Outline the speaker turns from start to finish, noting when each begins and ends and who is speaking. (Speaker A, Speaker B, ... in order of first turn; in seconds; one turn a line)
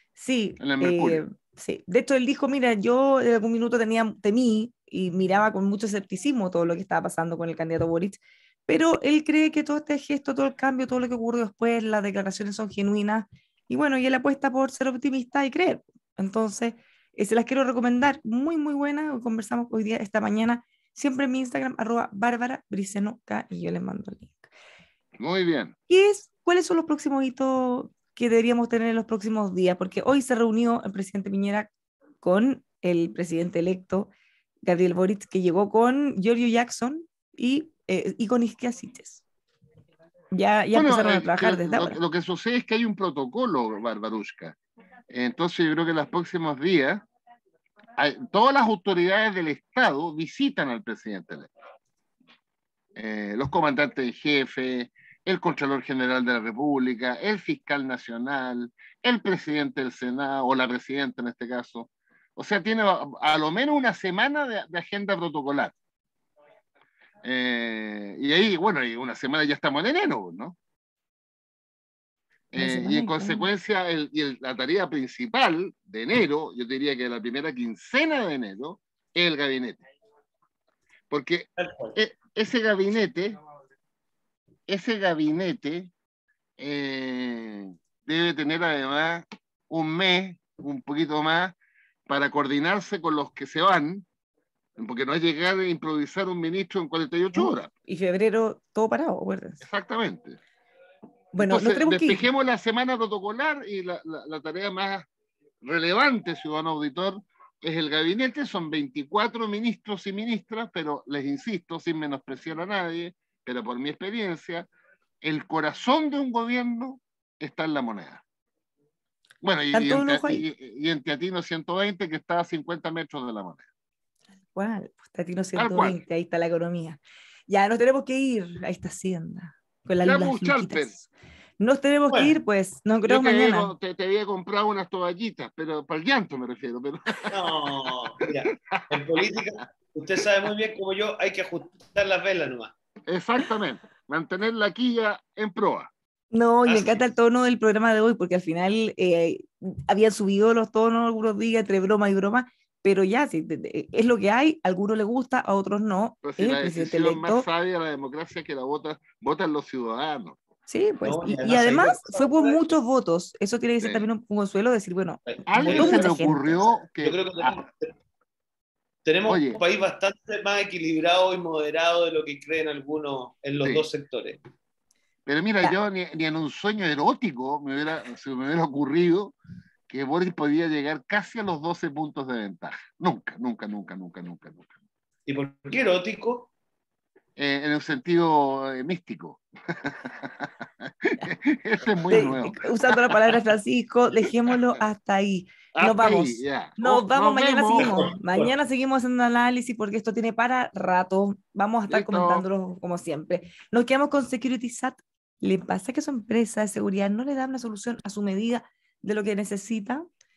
Speaker A: 0.1-24.5
Speaker B: 0.6-1.2
Speaker B: 25.2-25.7
Speaker A: 25.9-31.7
Speaker A: 32.2-34.1
Speaker A: 34.6-39.2
Speaker A: 40.3-42.0
Speaker B: 40.7-44.6
Speaker B: 45.1-47.0
Speaker B: 48.0-51.5
Speaker B: 52.9-65.7
Speaker B: 67.2-70.5
Speaker B: 72.5-79.8
Speaker A: 72.5-73.5
Speaker B: 81.1-83.4
Speaker C: 81.6-82.0
Speaker B: 84.7-85.9
Speaker B: 86.6-91.5
Speaker B: 92.1-94.0
Speaker B: 94.8-97.7
Speaker A: 97.3-99.6
Speaker B: 99.6-100.4
Speaker A: 101.3-102.3
Speaker B: 101.4-105.1
Speaker B: 105.6-114.7
Speaker B: 115.2-118.2
Speaker B: 119.4-123.7
Speaker A: 119.7-120.4
Speaker A: 124.5-131.1
Speaker B: 125.5-126.0
Speaker B: 130.0-130.9
Speaker A: 131.6-133.7
Speaker B: 133.0-137.3
Speaker C: 137.3-142.7
Speaker B: 138.7-139.0
Speaker B: 143.1-145.9
Speaker A: 146.3-157.4
Speaker C: 146.7-147.0
Speaker B: 156.2-160.4
Speaker A: 160.7-166.6
Speaker C: 161.0-162.6
Speaker B: 163.8-164.1
Speaker C: 165.3-166.1
Speaker B: 165.5-167.6
Speaker C: 167.0-167.9
Speaker C: 169.0-174.4
Speaker B: 169.3-169.6
Speaker B: 175.2-179.3
Speaker B: 179.9-184.7
Speaker C: 185.3-186.5
Speaker B: 187.4-193.0
Speaker A: 192.1-210.1
Speaker B: 195.7-198.0
Speaker C: 197.8-198.5
Speaker B: 201.9-202.4